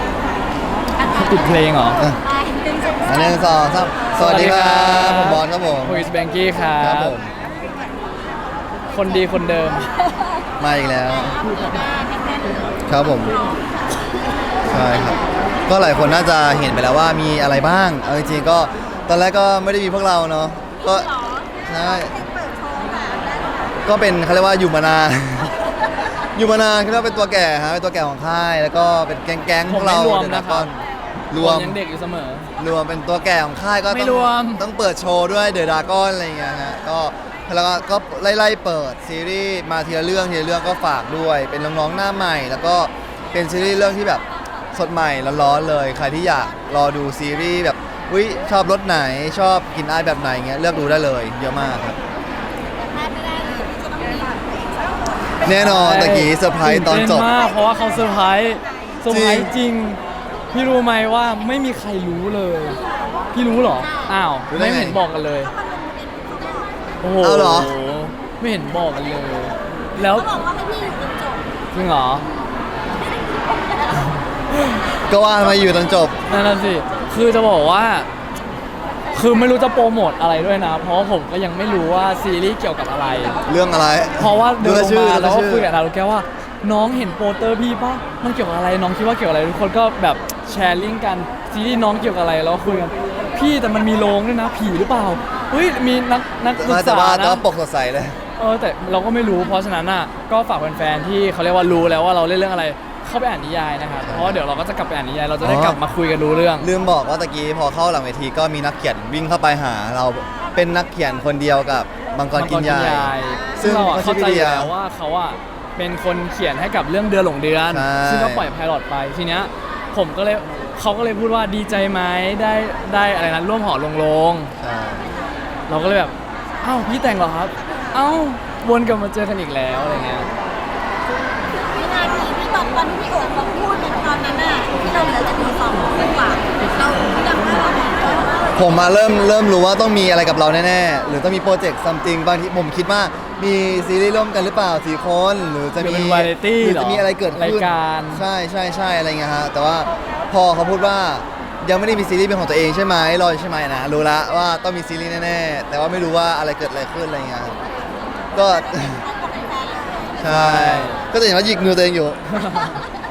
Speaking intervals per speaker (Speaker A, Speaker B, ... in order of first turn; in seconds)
Speaker A: 1.1-2.0, 4.1-7.1, 8.9-9.9, 29.7-30.8, 31.3-32.5, 33.9-34.6, 55.5-60.0, 60.5-62.8, 63.3-65.5, 67.0-70.3, 71.7-72.3, 74.5-74.8, 76.3-78.1, 79.1-83.4, 84.2-97.4, 98.4-106.7, 112.3-124.5, 125.7-130.3, 145.8-148.2, 160.3-161.0, 162.3-162.8
Speaker B: 2.2-3.0, 11.3-13.8, 20.8-23.6, 52.9-54.5, 65.4-66.7, 70.0-71.5, 131.6-138.6, 158.4-160.2
Speaker C: 3.0-6.1, 6.8-7.3, 10.6-11.4, 12.9-13.4, 14.7-21.1, 21.6-22.1, 23.9-25.5, 26.3-30.8, 31.3-31.8, 32.6-52.0, 55.4-57.3, 59.1-59.5, 64.5-65.0, 67.2-67.7, 75.1-76.2, 83.5-85.7, 96.6-98.2, 104.0-104.4, 105.4-105.8, 106.6-114.7, 117.7-118.5, 124.6-125.1, 138.5-157.6, 158.3-159.0, 160.2-162.2